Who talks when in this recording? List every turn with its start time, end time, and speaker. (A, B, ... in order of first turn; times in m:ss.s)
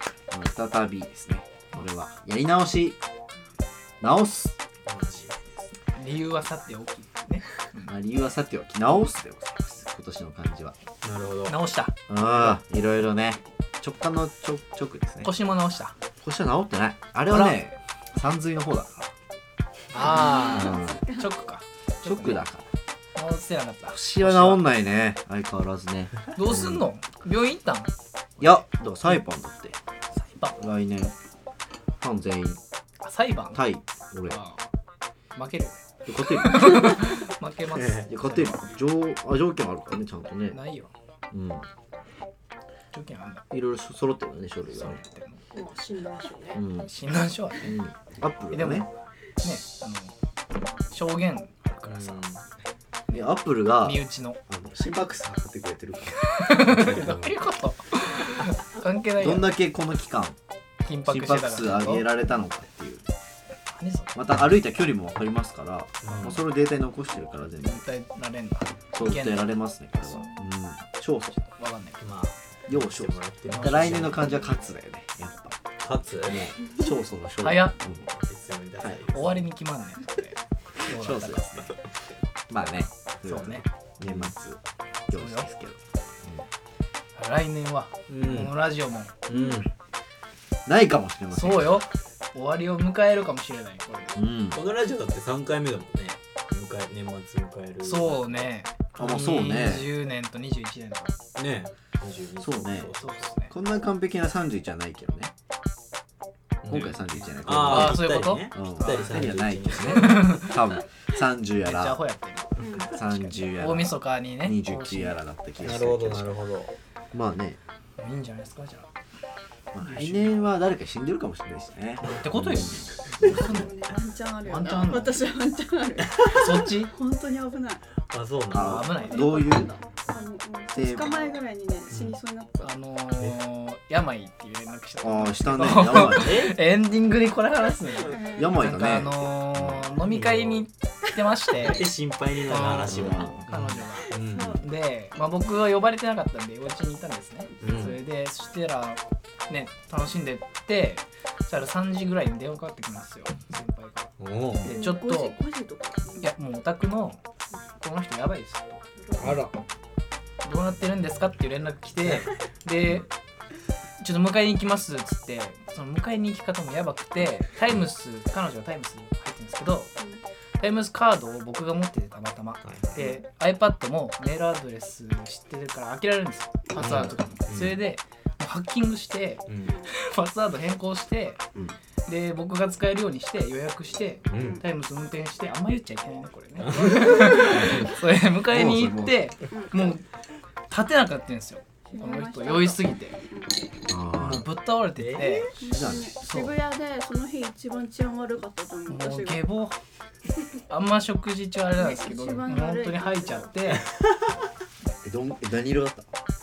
0:00.3-0:03.0 A
0:04.0-0:04.6 A
0:04.9-0:05.7 B
0:06.0-0:08.0 C
0:07.9-0:10.8 A
0:11.0-0:11.6 B
0:11.4-0:12.6 C
0:12.1-0:15.4 A
0:15.2-0:16.0 C
0:16.2-0:19.1 A
0:17.3-0:17.6 C
0:19.9-0:22.4 C
0:20.0-0:21.1 A
0:20.2-0:21.3 D
0:22.0-0:22.7 A
0:23.1-0:24.7 C
0:23.9-0:26.8 A
0:26.3-0:28.6 C
0:28.4-0:29.8 A
0:30.2-0:30.6 C
0:30.5-0:31.1 A
0:32.0-0:32.6 A
0:33.0-0:33.6 C
0:33.5-0:34.4 A
0:34.3-0:34.6 C
0:35.4-0:38.7 C
0:36.1-0:37.1 A
0:37.8-0:38.0 B
0:37.9-0:40.6 A
0:40.5-0:40.9 C
0:41.3-0:41.7 A
0:42.9-0:43.4 C
0:43.5-0:45.0 A
0:44.7-0:45.4 C
0:45.5-0:46.6 E
0:46.5-0:46.9 A
0:46.6-0:47.8 C
0:47.6-0:48.9 A
0:48.5-0:48.9 C
0:49.4-0:50.1 C
0:50.9-0:52.3 C
0:51.8-0:52.4 B
0:53.1-0:57.2 A
0:53.8-0:54.4 C
0:56.3-0:59.6 C
0:56.7-0:57.3 B
0:59.2-1:00.4 A
1:00.8-1:02.1 C
1:01.0-1:03.1 A
1:03.7-1:04.1 C
1:04.1-1:07.8 A
1:06.0-1:06.4 B
1:07.6-1:10.3 C
1:08.9-1:11.4 A
1:11.3-1:12.1 C
1:12.0-1:14.3 B
1:12.7-1:15.6 A
1:13.7-1:14.0 C
1:15.8-1:16.5 B
1:16.2-1:18.0 A
1:17.4-1:17.8 C
1:17.9-1:19.5 B
1:19.1-1:21.7 C
1:20.9-1:21.7 A
1:22.5-1:26.4 A
1:23.2-1:23.7 C
1:25.1-1:25.5 C
1:27.2-1:29.2 C
1:28.1-1:28.6 B
1:29.3-1:29.7 B
1:30.7-1:31.8 A
1:31.3-1:34.2 C
1:34.2-1:34.6 A
1:34.5-1:38.3 B
1:37.8-1:41.2 C
1:39.0-1:39.9 A
1:41.4-1:43.2 B
1:42.4-1:42.9 A
1:43.0-1:43.5 C
1:43.5-1:45.3 A
1:46.6-1:50.4 B
1:46.7-1:52.0 A
1:47.4-1:50.8 C
1:51.6-1:55.2 C
1:52.6-1:53.0 D
1:52.9-1:56.3 A
1:55.6-1:56.7 B
1:57.1-1:57.6 A
1:58.0-1:58.9 C
1:59.7-2:03.7 A
1:59.8-2:00.4 C
2:02.0-2:03.7 C
2:03.2-2:07.8 D
2:04.4-2:05.3 C
2:06.0-2:06.3 B
2:06.2-2:06.9 C
2:08.1-2:09.0 B
2:08.5-2:09.7 A
2:08.6-2:09.5 C
2:08.9-2:12.7 D
2:10.7-2:11.4 A
2:11.9-2:12.2 B
2:12.6-2:21.9 C
2:15.0-2:16.4 A
2:16.0-2:16.6 B
2:18.1-2:18.5 D
2:18.3-2:19.8 A
2:20.0-2:20.7 B
2:21.6-2:24.6 B
2:22.4-2:34.1 C
2:22.9-2:23.4 A
2:24.3-2:24.6 D
2:27.6-2:28.0 B
2:34.2-2:34.7 B
2:34.6-2:35.4 C
2:34.7-2:36.0 E
2:34.8-2:35.3 D
2:36.2-2:37.2 C
2:37.8-2:38.8 C
2:39.2-2:39.5 B
2:39.2-2:39.5 A
2:40.4-2:43.1 C
2:44.0-2:49.9 C
2:50.6-3:01.4 C
2:52.6-2:53.0 B
2:56.7-2:57.0 D
2:56.8-2:57.8 B
2:59.5-2:59.8 B
2:59.6-2:59.9 D
3:02.1-3:10.0 C
3:04.3-3:04.6 B
3:04.3-3:04.6 D
3:06.6-3:07.8 B
3:07.5-3:07.9 A
3:08.4-3:09.3 A
3:09.5-3:09.9 D
3:10.7-3:13.2 C
3:11.9-3:13.7 D
3:13.9-3:14.5 A
3:14.2-3:16.6 C
3:15.0-3:15.5 B
3:15.6-3:19.5 D
3:15.7-3:16.1 A
3:18.9-3:19.8 C
3:20.7-3:23.8 C
3:21.8-3:23.5 D
3:23.7-3:24.0 B
3:25.0-3:26.1 A